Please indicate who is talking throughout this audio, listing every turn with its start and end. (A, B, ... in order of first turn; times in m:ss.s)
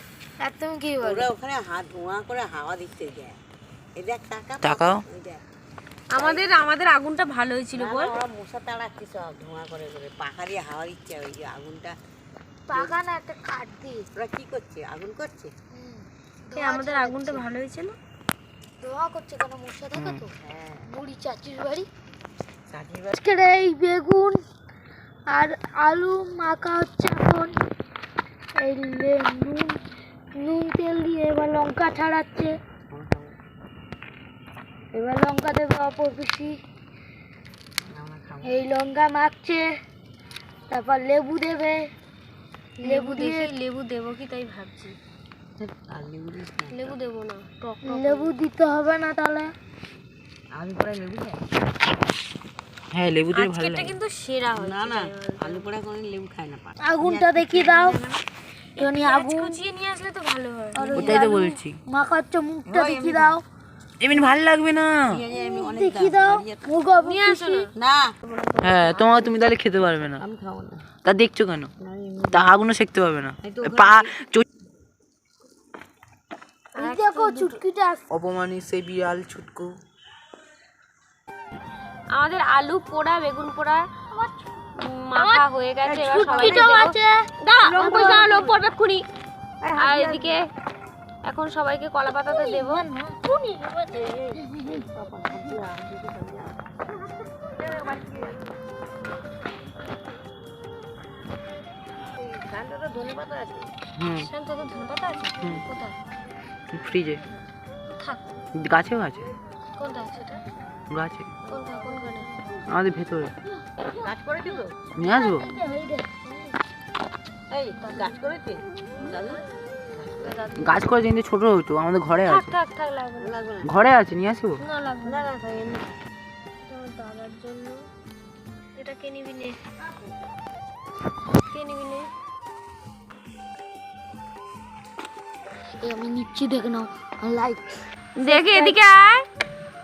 0:00.4-0:01.3 A
0:01.0-0:03.4 B
0:04.0-0:05.4 B
0:04.6-0:05.0 C
0:06.1-0:08.2 D
0:06.2-0:06.5 B
0:07.8-0:12.0 B
0:12.7-0:14.1 A
0:14.2-0:15.5 B
0:15.7-0:17.5 A
0:16.6-0:18.0 D
0:18.8-0:20.4 A
0:20.0-0:20.2 C
0:20.4-0:20.9 B
0:20.9-0:21.9 A
0:22.7-0:23.2 B
0:23.1-0:24.4 A
0:25.3-0:27.6 A
0:28.6-0:29.8 A
0:30.4-0:32.5 A
0:32.9-0:33.4 B
0:34.9-0:36.6 A
0:37.9-0:38.5 B
0:38.4-0:39.6 A
0:40.7-0:41.9 A
0:42.8-0:45.0 D
0:42.8-0:43.5 A
0:45.6-0:47.0 B
0:46.7-0:48.3 D
0:47.8-0:49.5 A
0:50.5-0:51.5 B
0:52.9-0:54.0 C
0:53.3-0:55.7 D
0:54.5-0:58.2 B
0:56.8-0:58.0 A
0:58.8-1:01.2 D
0:58.8-0:59.6 A
1:00.7-1:03.4 A
1:01.0-1:01.8 C
1:02.7-1:03.4 B
1:04.0-1:05.1 C
1:05.1-1:06.7 B
1:05.4-1:07.6 A
1:07.0-1:07.7 D
1:07.7-1:08.1 B
1:08.2-1:09.3 D
1:08.6-1:10.2 C
1:10.2-1:10.9 B
1:11.0-1:11.7 C
1:11.8-1:12.5 B
1:12.3-1:14.4 C
1:13.4-1:14.1 B
1:16.8-1:17.6 D
1:16.8-1:18.0 A
1:18.1-1:19.8 C
1:22.1-1:23.9 D
1:24.8-1:29.0 D
1:25.2-1:25.4 A
1:25.9-1:26.7 B
1:25.9-1:27.1 A
1:27.6-1:28.6 B
1:27.8-1:28.3 A
1:29.6-1:30.4 B
1:29.7-1:30.4 D
1:31.3-1:32.8 D
1:32.2-1:34.8 A
1:33.9-1:36.9 B
1:37.6-1:38.4 B
1:42.2-1:43.7 B
1:44.0-1:44.3 C
1:44.1-1:46.0 D
1:46.7-1:47.2 C
1:48.6-1:49.2 C
1:49.8-1:50.4 D
1:50.9-1:51.3 C
1:51.5-1:52.3 D
1:52.7-1:53.3 C
1:54.0-1:54.8 B
1:55.0-1:55.5 C
1:55.0-1:56.2 A
1:57.5-1:59.4 B
1:57.8-1:58.2 D
2:00.2-2:00.8 D
2:00.2-2:00.5 B
2:00.6-2:02.6 C
2:02.2-2:03.3 D
2:03.2-2:03.7 B
2:03.6-2:04.6 C
2:04.6-2:05.3 D
2:05.0-2:05.9 B
2:06.7-2:07.8 D
2:08.8-2:09.6 D
2:11.5-2:12.1 D
2:15.8-2:17.7 A
2:18.2-2:19.2 D
2:18.2-2:18.8 A